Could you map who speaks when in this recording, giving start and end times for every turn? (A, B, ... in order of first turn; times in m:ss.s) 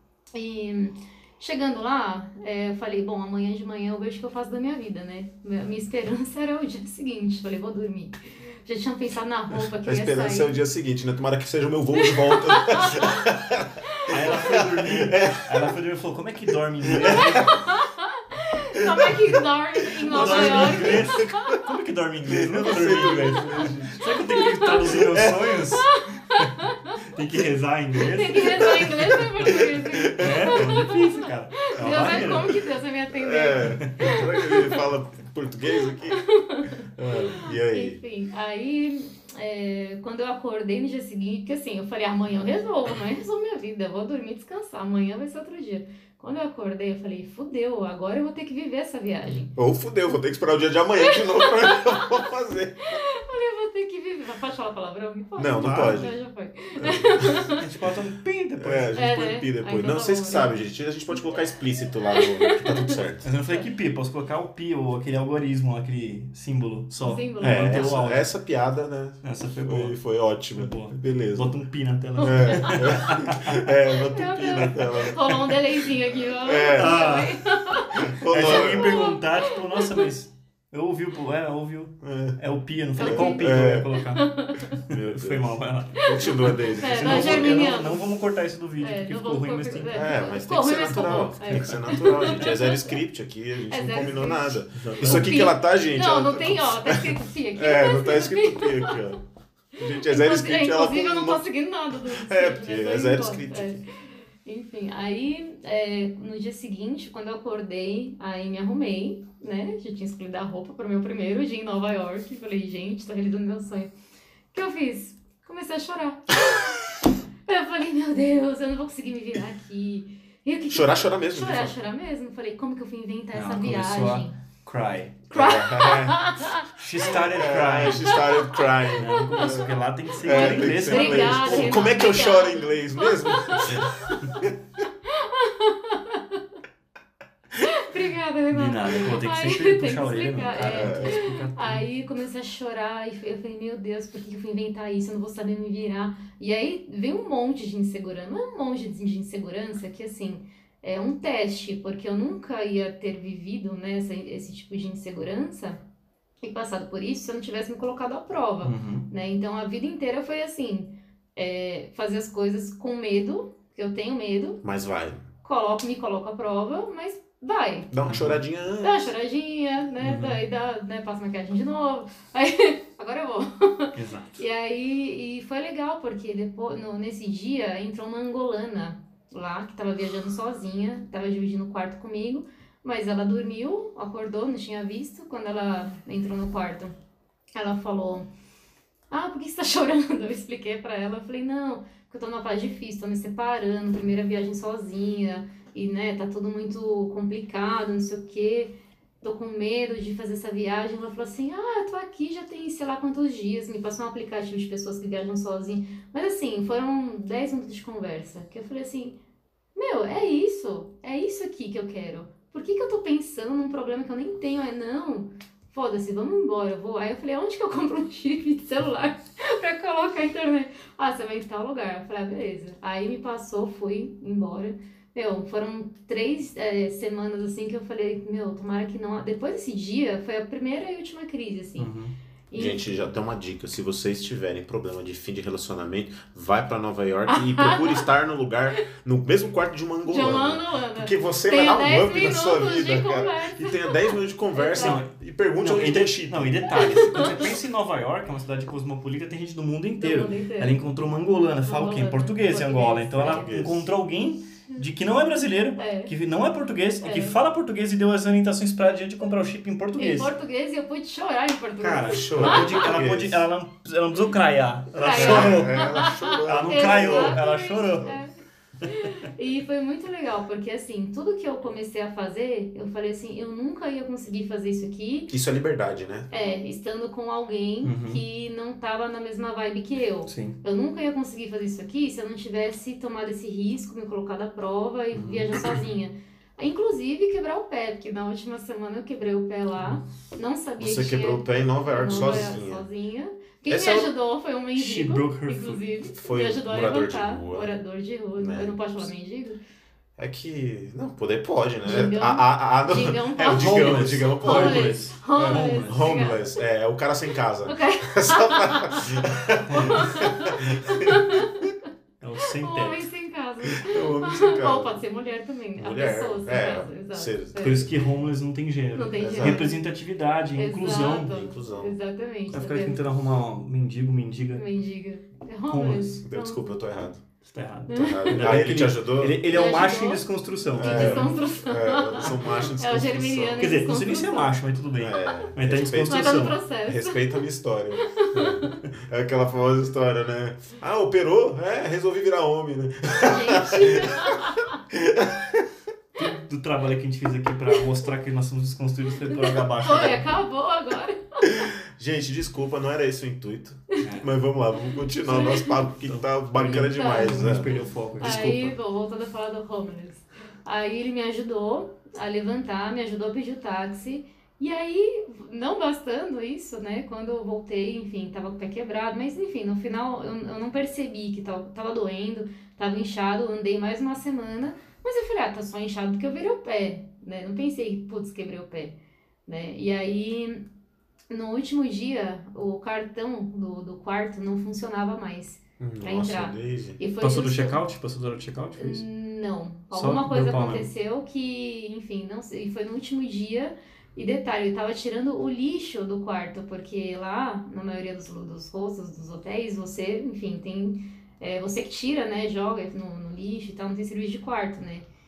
0:00.3-0:10.6 A
0:09.8-0:15.7 B
0:12.0-0:13.2 A
0:13.9-0:14.1 A
0:14.1-0:17.6 C
0:16.9-0:17.3 B
0:17.2-0:21.6 A
0:20.1-0:26.5 C
0:20.1-0:21.3 B
0:22.3-0:24.0 B
0:23.0-0:23.4 A
0:24.3-0:25.0 A
0:24.8-0:25.6 B
0:25.7-0:27.0 A
0:27.1-0:29.2 C
0:28.0-0:34.8 A
0:29.4-0:30.8 B
0:30.2-0:32.6 C
0:31.8-0:32.6 B
0:33.2-0:36.2 B
0:33.7-0:34.2 C
0:36.1-0:49.5 A
0:36.9-0:38.0 B
0:49.5-0:52.9 B
0:51.0-0:52.2 A
0:52.9-0:57.6 A
0:55.4-0:56.2 B
0:55.5-0:56.1 C
0:56.8-0:57.4 B
0:57.6-0:58.9 C
0:58.6-1:03.3 B
0:58.9-1:00.6 A
1:02.2-1:03.0 A
1:03.2-1:08.3 C
1:07.0-1:08.0 A
1:07.4-1:11.6 B
1:09.2-1:10.0 C
1:10.5-1:13.6 C
1:12.2-1:15.2 B
1:12.2-1:13.0 A
1:13.8-1:20.0 A
1:16.4-1:17.0 B
1:16.8-1:30.0 C
1:18.1-1:19.0 B
1:22.0-1:22.4 B
1:23.0-1:24.0 B
1:23.0-1:24.8 A
1:24.9-1:27.6 B
1:26.8-1:28.1 A
1:28.8-1:32.9 A
1:29.9-1:39.2 B
1:31.1-1:32.5 C
1:33.7-1:39.0 A
1:34.8-1:35.3 C
1:39.8-1:41.5 B
1:39.8-1:43.8 A
1:42.1-1:43.8 B
1:44.4-1:53.9 A
1:54.5-1:56.3 A
1:57.4-2:04.4 A
2:00.7-2:01.7 B
2:03.3-2:05.2 C
2:05.3-2:06.3 B
2:05.3-2:06.6 A
2:06.8-2:08.2 C
2:07.2-2:14.5 B
2:08.1-2:13.8 A
2:08.9-2:12.1 C
2:15.0-2:16.4 A
2:17.6-2:35.8 A
2:18.5-2:21.9 C
2:20.6-2:21.2 B
2:36.4-2:44.6 A
2:38.6-2:39.1 C
2:44.6-2:45.2 B
2:45.4-2:47.9 A
2:47.9-2:49.1 B
2:48.0-2:48.4 C
2:48.8-3:06.9 A
2:50.0-2:50.4 C
2:54.0-2:54.4 C
3:07.5-3:08.3 A
3:09.1-3:29.2 A
3:29.7-3:51.9 A
3:51.8-3:52.1 C
3:52.5-3:52.9 A
3:52.5-4:06.6 B
3:57.3-3:58.0 A
4:00.0-4:05.0 A
4:04.7-4:20.3 C
4:06.7-4:07.4 A
4:10.0-4:10.8 A
4:11.6-4:13.6 A
4:13.2-4:13.9 B
4:15.8-4:16.1 A
4:17.0-4:17.4 A
4:20.0-4:22.8 A
4:21.8-4:28.2 C
4:22.1-4:23.4 B
4:25.0-4:28.3 A
4:25.1-4:27.4 B
4:28.8-4:29.1 C
4:28.8-4:35.3 A
4:35.3-4:36.3 B
4:36.3-4:59.6 A
4:37.8-4:38.2 C
4:40.2-4:40.6 C
4:45.1-4:45.5 C
4:50.8-4:52.8 B
4:52.0-4:52.6 C
4:53.7-4:54.1 B
4:54.8-4:55.8 C
4:56.2-4:57.7 B
4:58.4-4:59.1 B
5:00.2-5:11.2 B
5:01.8-5:06.5 A
5:03.5-5:06.1 C
5:07.6-5:09.0 A
5:09.7-5:10.2 C
5:09.9-5:11.6 A
5:12.2-5:13.0 C
5:12.6-5:17.9 A
5:13.8-5:15.0 B
5:15.8-5:17.9 B
5:17.6-5:21.3 C
5:18.9-5:19.8 A
5:19.2-5:19.7 B
5:20.5-5:23.0 A
5:21.0-5:21.9 B
5:22.5-5:24.6 C
5:24.6-5:26.6 A
5:25.7-5:26.1 C
5:26.2-5:27.2 B
5:27.4-5:31.3 C
5:27.9-5:28.4 A
5:27.9-5:29.5 B
5:29.5-5:30.2 A
5:30.7-5:33.7 B
5:30.8-5:34.5 A
5:33.6-5:36.6 C
5:35.0-5:45.6 B
5:36.1-5:37.4 A
5:38.1-5:38.8 A
5:43.2-5:44.8 A
5:46.2-5:50.3 C
5:49.3-5:51.6 A
5:51.5-5:58.5 B
5:54.0-5:54.3 C
5:55.3-5:55.7 A
5:55.3-5:58.7 C
5:56.9-6:20.6 A
6:21.3-6:27.8 A
6:25.8-6:27.0 B
6:27.2-6:29.1 C
6:28.8-6:45.0 A
6:29.9-6:30.9 C